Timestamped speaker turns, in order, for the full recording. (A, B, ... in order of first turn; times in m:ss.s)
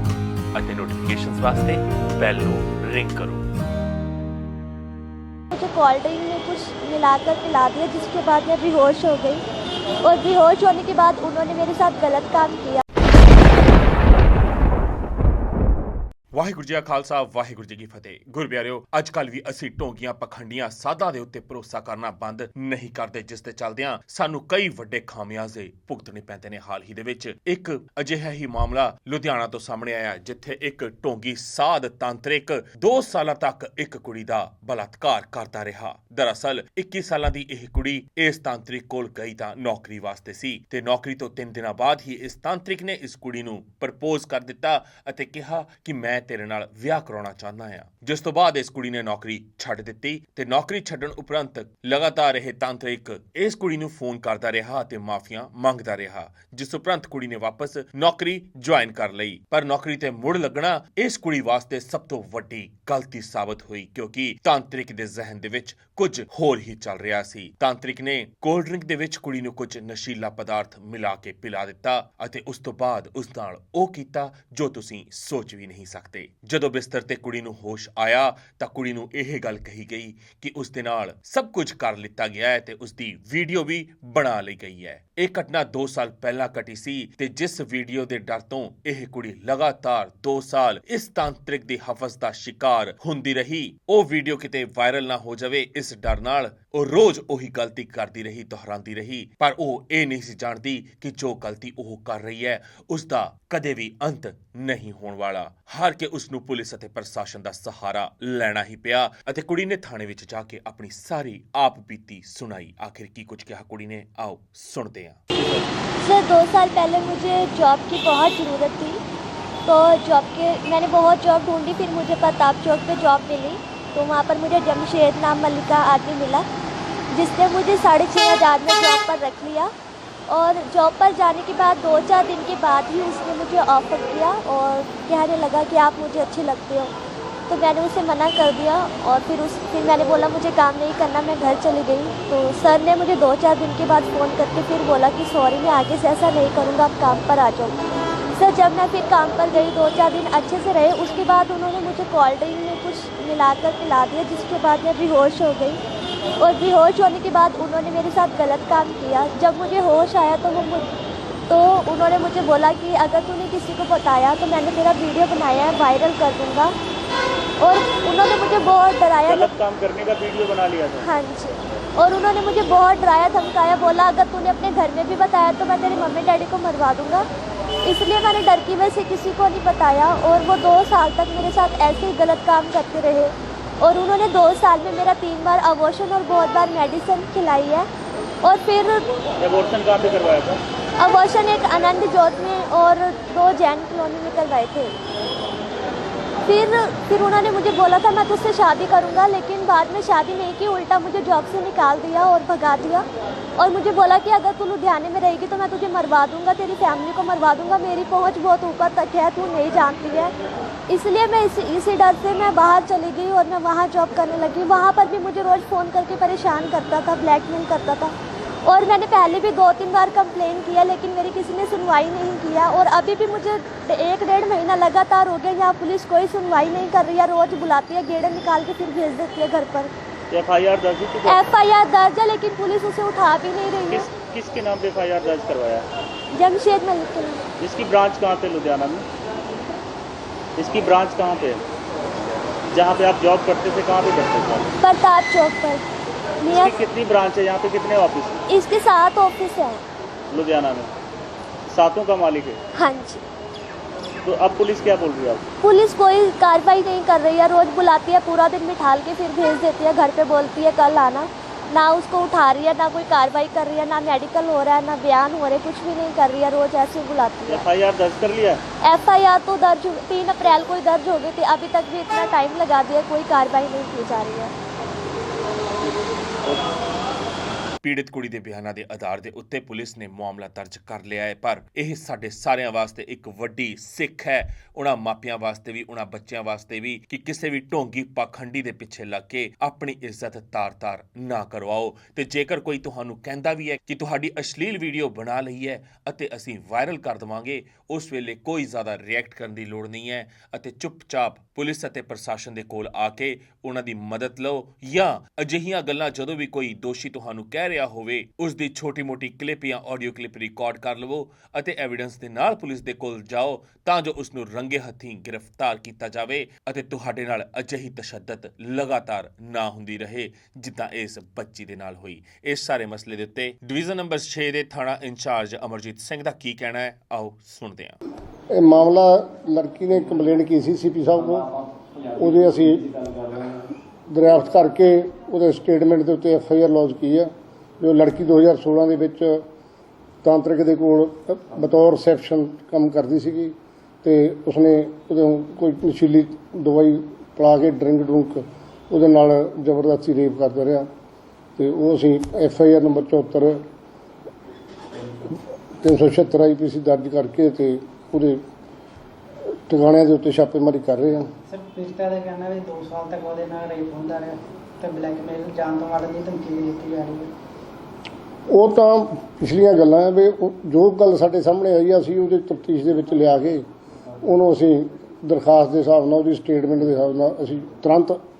0:00.5-0:03.4 A
0:05.5-0:09.4 B
0:10.0-0:12.8 B
0:16.3-1:55.2 A
1:56.0-1:59.0 B
1:59.6-2:06.4 B
2:07.1-2:09.7 B
2:10.3-2:16.9 B
2:17.5-2:27.8 B
2:28.3-2:35.8 B
2:36.4-2:40.9 B
2:41.5-2:46.7 B
2:47.6-2:49.5 B
2:49.2-2:51.1 C
2:51.0-2:57.2 B
2:57.8-3:07.9 B
3:08.4-3:09.0 B
3:09.4-3:10.6 C
3:11.0-3:14.9 B
3:16.4-3:23.0 B
3:23.6-3:30.3 B
3:30.9-3:38.1 B
3:38.6-3:49.9 B
3:50.3-3:51.4 C
3:51.2-3:54.1 B
3:53.9-3:55.9 C
3:56.3-3:57.4 B
3:57.6-3:59.0 C
4:00.6-4:01.6 C
4:02.7-4:04.7 C
4:04.8-4:05.8 B
4:06.4-4:06.8 B
4:06.5-4:08.4 C
4:08.5-4:09.8 B
4:10.3-4:10.9 C
4:11.7-4:12.6 C
4:12.7-4:13.2 B
4:14.2-4:15.4 C
4:15.6-4:27.6 B
4:27.4-4:28.6 C
4:28.8-4:34.5 B
4:37.8-5:28.0 A
5:28.5-5:31.5 D
5:32.1-5:39.4 D
5:40.2-5:50.9 D
5:51.6-5:53.6 D
5:55.8-5:58.4 D
5:59.7-6:01.3 D
6:01.5-6:07.3 E
6:08.5-6:13.6 D
6:14.2-6:18.2 D